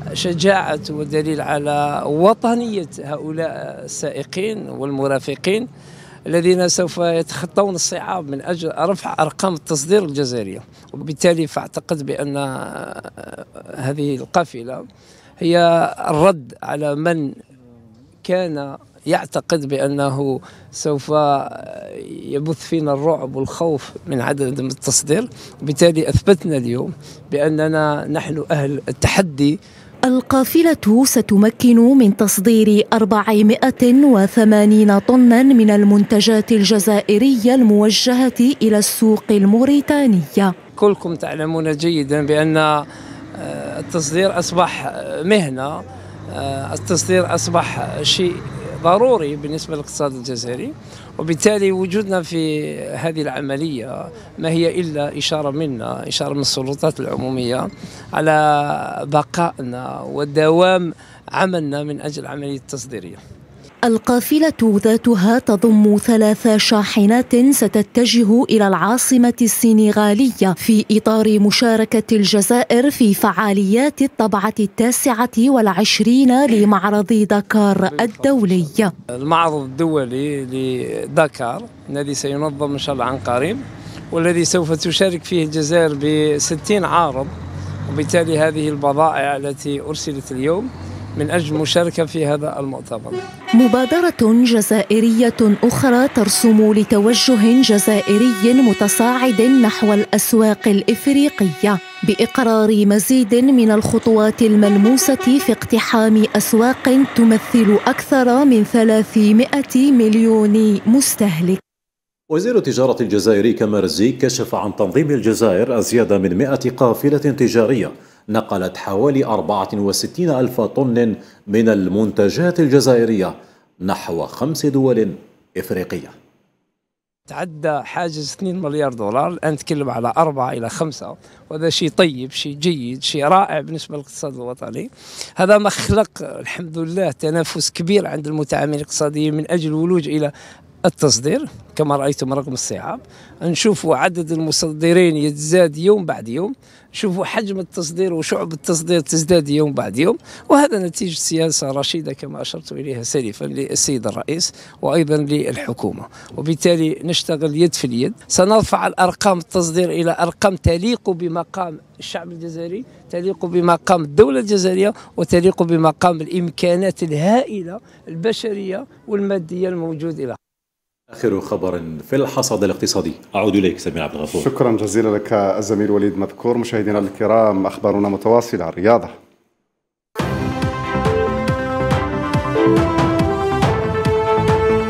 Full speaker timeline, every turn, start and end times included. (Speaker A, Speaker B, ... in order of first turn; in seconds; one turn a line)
Speaker A: 0.1-5.7
Speaker A: 6.3-14.8
Speaker A: 15.4-17.3
Speaker A: 18.2-29.5
Speaker B: 30.1-40.5
Speaker A: 40.8-42.8
Speaker A: 43.4-63.2
Speaker B: 63.9-78.9
Speaker A: 77.8-87.3
Speaker A: 87.9-93.2
Speaker B: 93.6-111.6
Speaker C: 112.3-126.1
Speaker A: 127.3-140.3
Speaker A: 140.8-170.4
Speaker C: 171.1-174.5
Speaker D: 174.3-179.1